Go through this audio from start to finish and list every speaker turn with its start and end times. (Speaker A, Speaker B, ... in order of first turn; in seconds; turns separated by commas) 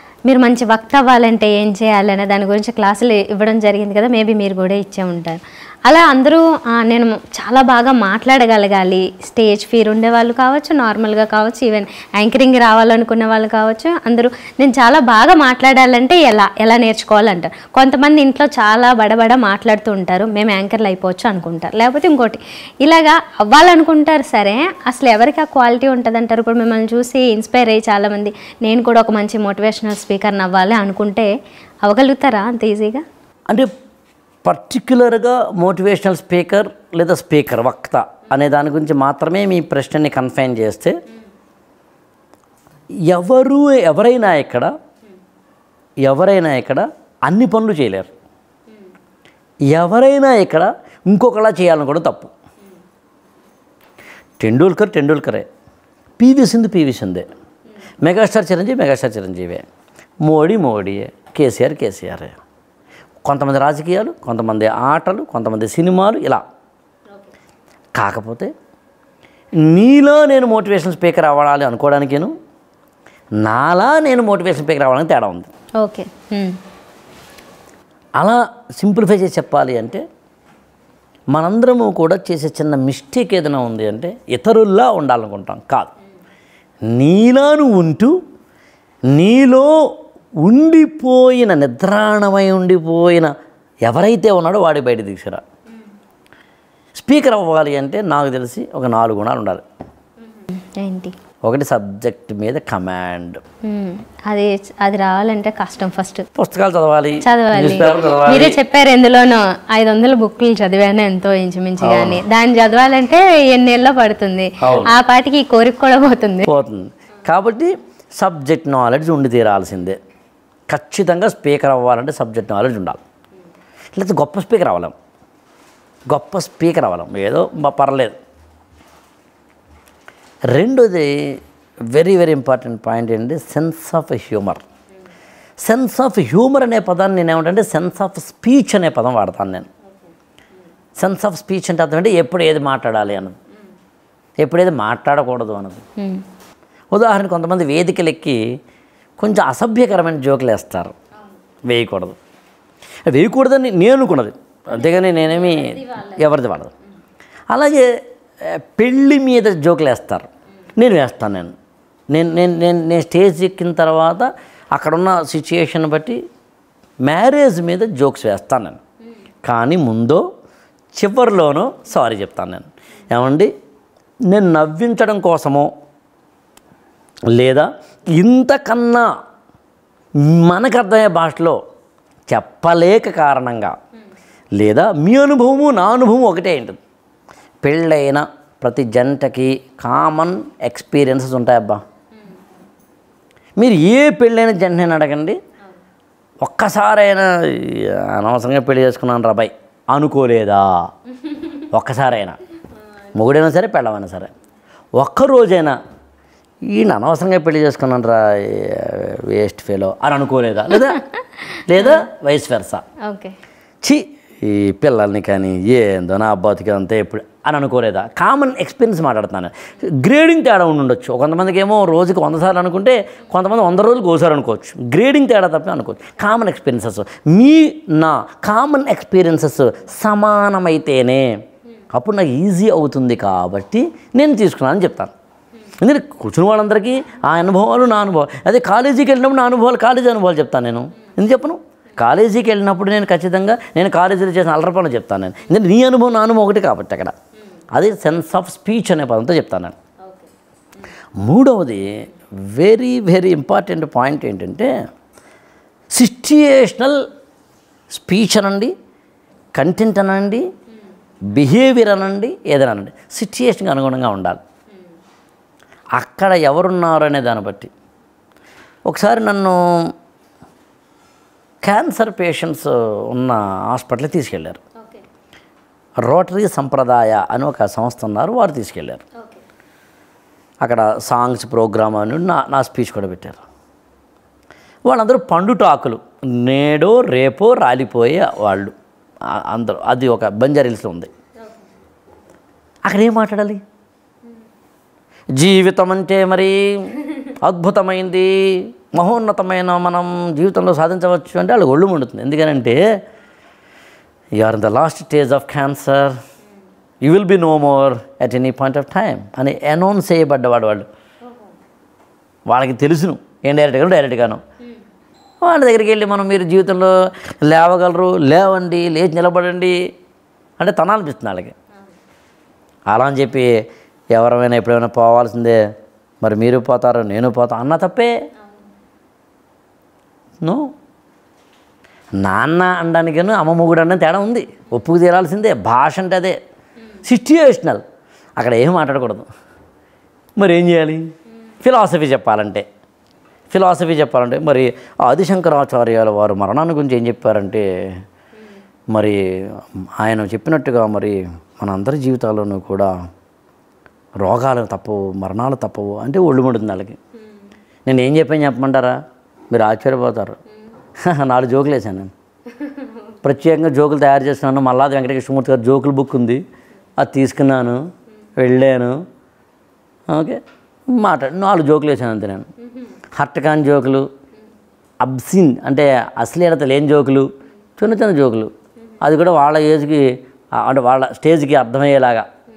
Speaker A: 0.3-31.3, Speaker A: 31.8-33.0, Speaker B: 34.4-40.9, Speaker B: 43.1-44.7, Speaker B: 46.0-48.1, Speaker B: 49.7-52.3, Speaker B: 54.4-55.5, Speaker B: 56.2-57.3, Speaker B: 58.0-59.6, Speaker B: 60.2-62.4, Speaker B: 63.2-66.4, Speaker B: 68.0-68.5, Speaker B: 69.6-72.3, Speaker B: 73.4-75.5, Speaker A: 75.8-76.6, Speaker B: 78.2-80.0, Speaker B: 81.3-85.9, Speaker B: 86.9-88.2, Speaker B: 89.1-89.9, Speaker B: 90.4-93.3, Speaker B: 93.8-95.4, Speaker B: 96.9-99.6, Speaker A: 100.3-101.1, Speaker B: 101.4-103.4, Speaker A: 103.6-106.3, Speaker B: 106.3-108.6, Speaker A: 107.2-116.5, Speaker B: 111.8-112.2, Speaker B: 114.6-114.9, Speaker B: 116.4-120.0, Speaker B: 120.7-123.0, Speaker B: 123.9-124.9, Speaker B: 126.1-128.2, Speaker B: 130.5-131.4, Speaker B: 131.9-134.6, Speaker B: 135.6-139.7, Speaker B: 141.0-143.3, Speaker B: 144.4-145.8, Speaker A: 146.0-146.2, Speaker B: 146.9-148.4, Speaker B: 149.2-150.9, Speaker B: 151.6-152.2, Speaker B: 153.1-156.7, Speaker A: 154.7-156.3, Speaker B: 157.5-161.5, Speaker B: 162.1-166.2, Speaker B: 167.0-168.8, Speaker B: 169.4-170.2, Speaker B: 170.9-173.5, Speaker B: 174.3-175.7, Speaker B: 177.3-179.1, Speaker B: 180.2-181.6, Speaker B: 182.3-183.7, Speaker B: 184.6-186.8, Speaker B: 187.6-191.8, Speaker B: 193.6-195.4, Speaker B: 196.4-200.7, Speaker B: 201.6-202.4, Speaker B: 203.1-204.3, Speaker B: 204.9-205.8, Speaker B: 206.7-212.8, Speaker A: 211.8-212.0, Speaker A: 213.0-213.4, Speaker B: 213.8-231.3, Speaker B: 231.9-235.1, Speaker B: 235.8-247.1, Speaker B: 247.7-249.7, Speaker A: 250.0-250.3, Speaker B: 251.2-254.7, Speaker B: 255.9-257.0, Speaker B: 257.9-258.7, Speaker B: 259.5-260.4, Speaker B: 261.3-264.4, Speaker B: 266.0-267.7, Speaker B: 268.9-269.9, Speaker B: 271.6-274.6, Speaker A: 274.8-275.0, Speaker B: 276.0-279.0, Speaker A: 279.2-279.4, Speaker B: 280.6-283.4, Speaker B: 284.9-288.7, Speaker B: 289.3-291.1, Speaker B: 292.9-293.6, Speaker B: 295.4-302.8, Speaker B: 304.4-306.1, Speaker B: 307.0-310.9, Speaker A: 311.2-311.5, Speaker B: 312.4-314.4, Speaker B: 315.4-319.8, Speaker B: 320.6-321.5, Speaker B: 322.9-323.5, Speaker B: 324.1-325.6, Speaker B: 326.2-328.1, Speaker A: 328.4-328.7, Speaker B: 330.4-330.7, Speaker B: 332.2-336.4, Speaker B: 337.0-337.8, Speaker B: 338.4-339.3, Speaker B: 340.4-341.1, Speaker B: 341.6-342.6, Speaker B: 343.5-348.0, Speaker B: 348.9-352.9, Speaker B: 354.2-357.0, Speaker B: 357.9-359.0, Speaker B: 359.5-360.4, Speaker B: 361.0-362.1, Speaker A: 362.5-363.1, Speaker B: 363.2-366.4, Speaker B: 367.0-367.8, Speaker B: 368.4-368.9, Speaker B: 370.1-372.5, Speaker B: 373.1-374.1, Speaker B: 375.0-382.2